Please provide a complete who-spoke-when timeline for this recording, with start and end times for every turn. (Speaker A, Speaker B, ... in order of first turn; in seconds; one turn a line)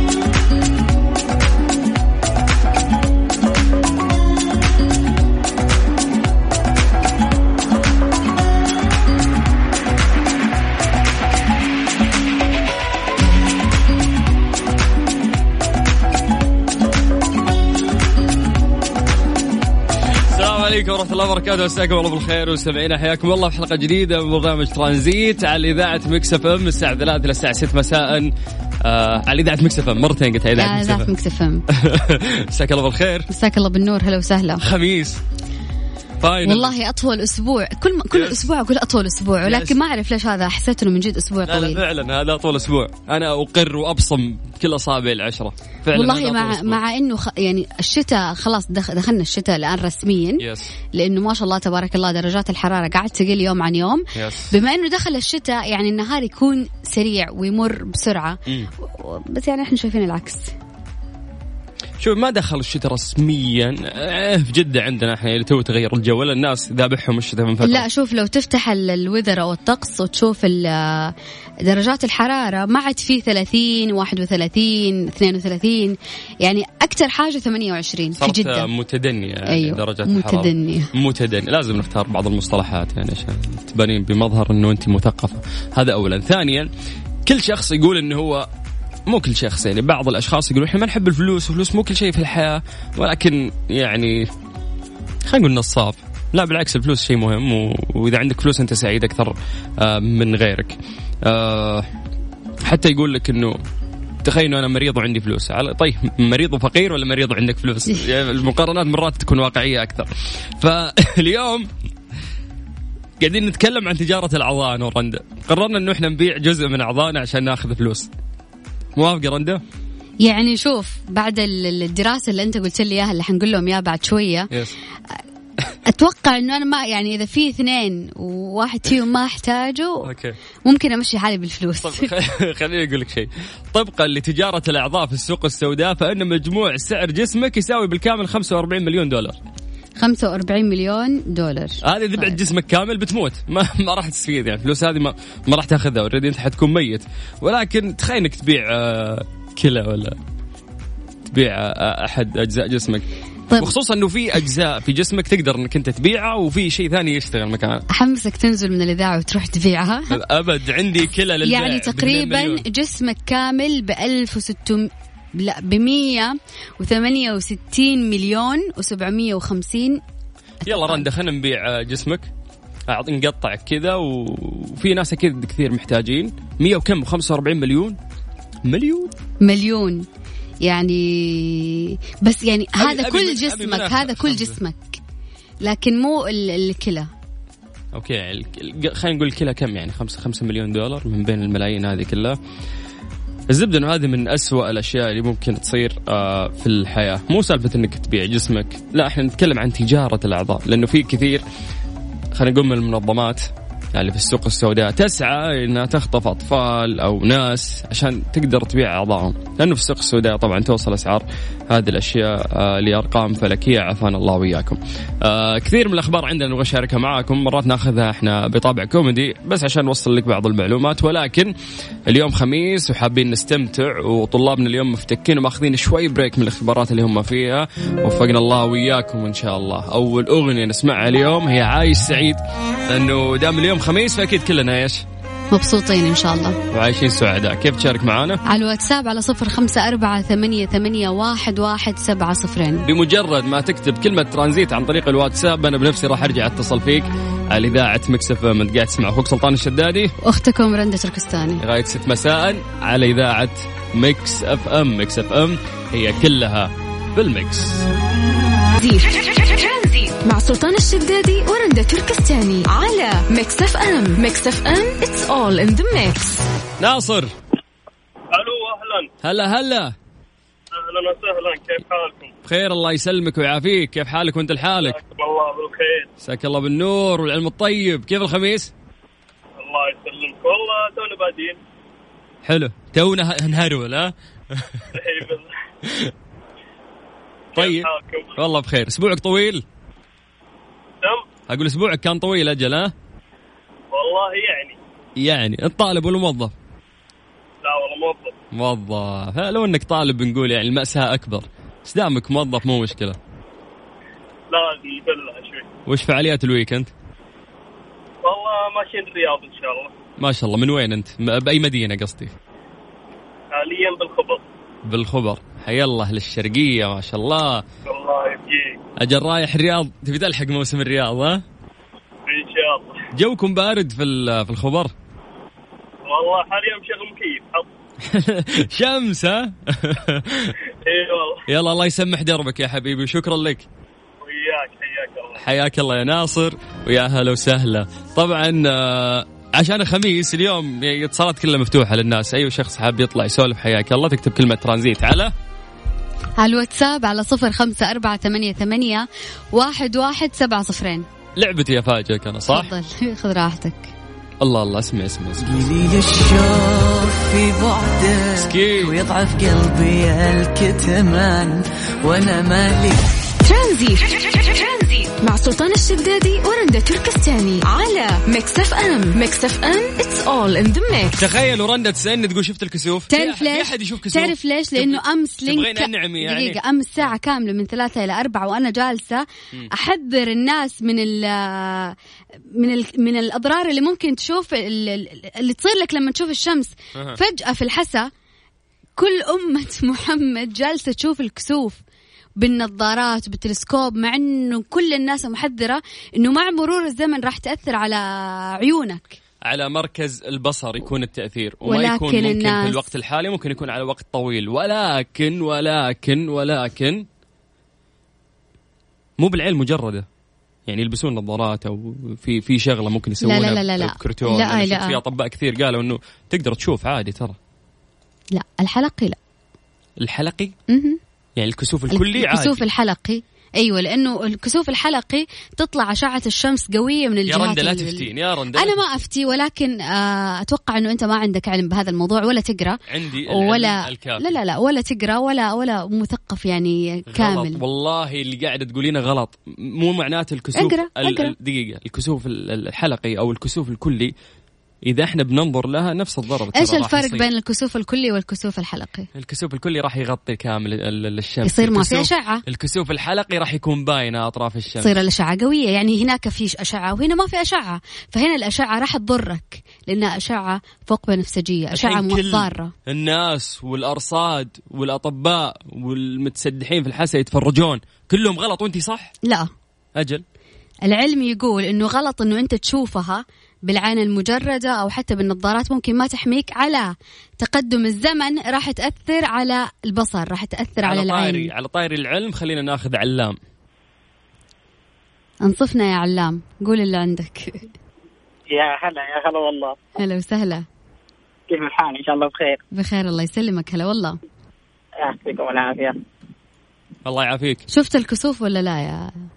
Speaker A: 20.1-31.1
Speaker B: 30.6-31.6
Speaker A: 31.7-33.3
Speaker B: 33.3-34.7
Speaker A: 34.6-35.2
Speaker A: 36.2-36.8
Speaker B: 36.4-41.8
Speaker A: 38.1-38.5
Speaker A: 39.4-39.8
Speaker A: 41.5-46.8
Speaker B: 45.9-50.5
Speaker A: 50.4-50.7
Speaker B: 51.0-60.5
Speaker A: 54.1-54.5
Speaker A: 62.0-67.9
Speaker B: 67.6-71.1
Speaker B: 71.7-78.7
Speaker A: 78.2-86.7
Speaker B: 79.5-80.9
Speaker A: 87.3-88.5
Speaker A: 89.1-94.3
Speaker A: 95.3-101.9
Speaker A: 102.6-103.6
Speaker A: 104.2-111.7
Speaker A: 113.2-118.1
Speaker A: 119.0-119.6
Speaker B: 120.2-124.5
Speaker A: 124.5-124.8
Speaker B: 125.9-130.1
Speaker A: 130.0-130.4
Speaker B: 130.7-132.1
Speaker A: 131.8-139.4
Speaker B: 140.0-142.4
Speaker A: 141.8-150.2
Speaker A: 151.3-153.1
Speaker A: 153.6-157.8
Speaker B: 157.9-160.2
Speaker A: 160.1-162.7
Speaker B: 161.4-170.0
Speaker B: 170.7-171.1
Speaker A: 170.7-172.3
Speaker A: 172.9-178.0
Speaker A: 178.7-179.1
Speaker B: 179.4-180.1
Speaker B: 180.6-185.0
Speaker A: 182.8-184.6
Speaker B: 185.6-187.1
Speaker A: 187.9-192.4
Speaker A: 193.5-201.4
Speaker A: 202.3-221.5
Speaker A: 222.1-235.0
Speaker B: 235.5-236.6
Speaker A: 236.7-238.4
Speaker B: 238.4-242.9
Speaker A: 242.8-250.1
Speaker B: 250.2-251.6
Speaker A: 251.6-257.9
Speaker C: 258.8-266.4
Speaker A: 266.8-267.3
Speaker D: 268.3-269.1
Speaker A: 269.2-269.9
Speaker D: 270.7-272.3
Speaker A: 272.4-275.0
Speaker D: 274.9-276.1
Speaker A: 276.2-278.7
Speaker D: 279.6-281.6
Speaker A: 282.4-284.9
Speaker D: 284.9-285.5
Speaker A: 285.9-286.1
Speaker D: 287.5-288.4
Speaker A: 287.6-289.6
Speaker D: 291.0-291.3
Speaker A: 291.5-292.9
Speaker D: 293.9-294.8
Speaker A: 295.2-296.5
Speaker D: 297.6-298.4
Speaker A: 298.5-303.2
Speaker D: 304.5-305.7
Speaker A: 305.9-306.9
Speaker D: 308.2-309.9
Speaker A: 310.2-312.3
Speaker D: 313.5-314.4
Speaker A: 314.9-317.6
Speaker D: 317.9-318.8
Speaker A: 319.0-321.4
Speaker D: 322.3-323.1
Speaker A: 323.1-324.9
Speaker D: 326.1-327.7
Speaker A: 328.0-330.6
Speaker D: 330.8-331.4
Speaker A: 331.5-333.7
Speaker D: 334.2-335.4
Speaker A: 335.4-345.3
Speaker B: 346.4-351.1
Speaker A: 351.4-352.7
Speaker B: 352.5-353.9
Speaker A: 354.4-355.6
Speaker E: 355.5-363.2
Speaker A: 358.4-359.0
Speaker C: 363.4-371.2
Speaker A: 371.2-377.1
Speaker B: 373.1-382.0
Speaker B: 382.5-388.1
Speaker A: 386.9-387.2
Speaker B: 389.0-391.8
Speaker B: 392.4-399.2
Speaker A: 399.4-407.1
Speaker B: 401.6-402.8
Speaker A: 409.2-410.1
Speaker A: 410.7-417.4
Speaker B: 413.2-415.0
Speaker B: 418.3-419.2
Speaker A: 420.0-420.5
Speaker B: 420.7-421.0
Speaker A: 421.4-422.6
Speaker B: 421.9-437.6
Speaker A: 427.3-428.9
Speaker A: 432.9-434.3
Speaker A: 437.1-444.1
Speaker B: 440.6-441.3
Speaker A: 444.8-447.2
Speaker B: 446.5-449.1
Speaker A: 449.1-455.0
Speaker B: 451.4-452.4
Speaker B: 454.8-462.7
Speaker A: 461.7-469.1
Speaker B: 469.2-469.5
Speaker A: 470.0-470.2
Speaker B: 470.9-481.5
Speaker A: 480.8-483.4
Speaker B: 485.4-487.7
Speaker F: 488.5-489.8
Speaker B: 490.0-490.7
Speaker F: 491.5-492.6
Speaker B: 492.7-494.2
Speaker F: 495.0-496.0
Speaker A: 497.1-497.6
Speaker B: 497.7-499.3